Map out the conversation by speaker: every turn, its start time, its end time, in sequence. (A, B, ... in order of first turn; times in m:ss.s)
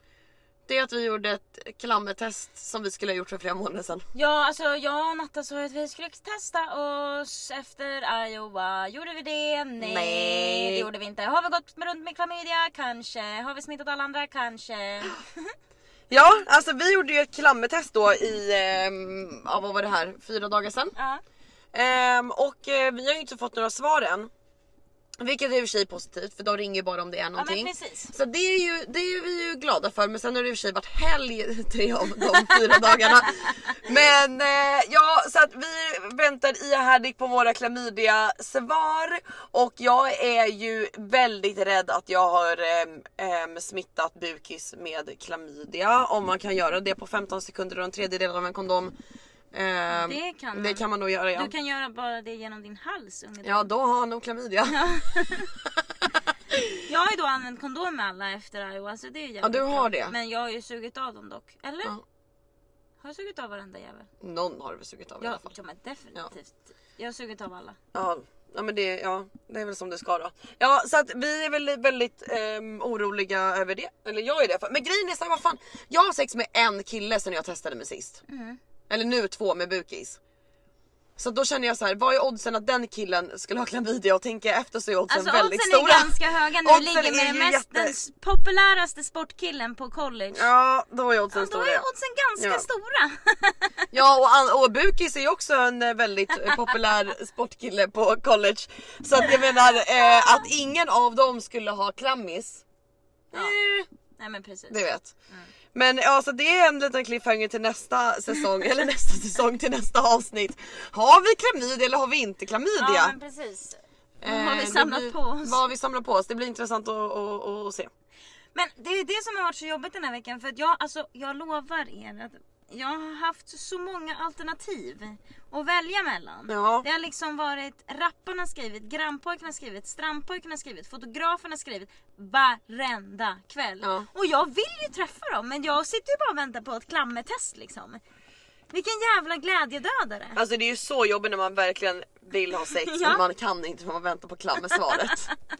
0:00.7-0:04.1 A
0:04.1-0:15.5 B
0:09.8-0:10.9 A
0:16.1-0:20.9 A
0:21.0-0:21.2 B
0:21.7-0:24.3 A
0:25.2-0:48.9 A
0:27.4-0:28.1 B
0:32.4-0:33.8 B
0:49.5-0:51.5 A
0:49.9-0:53.7 B
0:53.4-0:54.8 A
0:54.7-0:55.5 B
0:56.5-0:56.8 A
0:56.8-1:02.0 B
0:59.4-1:00.2 A
1:03.0-1:04.1 B
1:04.2-1:05.5 A
1:05.2-1:07.8 B
1:07.9-1:18.2 A
1:18.3-1:18.6 B
1:18.9-1:20.2 A
1:21.2-1:28.0 A
1:25.1-1:30.5 B
1:30.3-1:31.8 A
1:31.3-1:33.9 B
1:32.4-1:32.7 A
1:33.9-1:42.6 A
1:43.3-1:43.6 A
1:43.3-1:45.5 B
1:44.7-1:45.1 A
1:45.7-1:53.2 A
1:52.8-1:55.6 B
1:54.2-1:57.9 A
1:58.6-2:18.0 B
2:06.5-2:06.9 A
2:13.8-2:14.1 A
2:18.7-2:20.4 B
2:20.4-2:25.3 A
2:22.6-2:23.2 B
2:24.7-2:25.3 B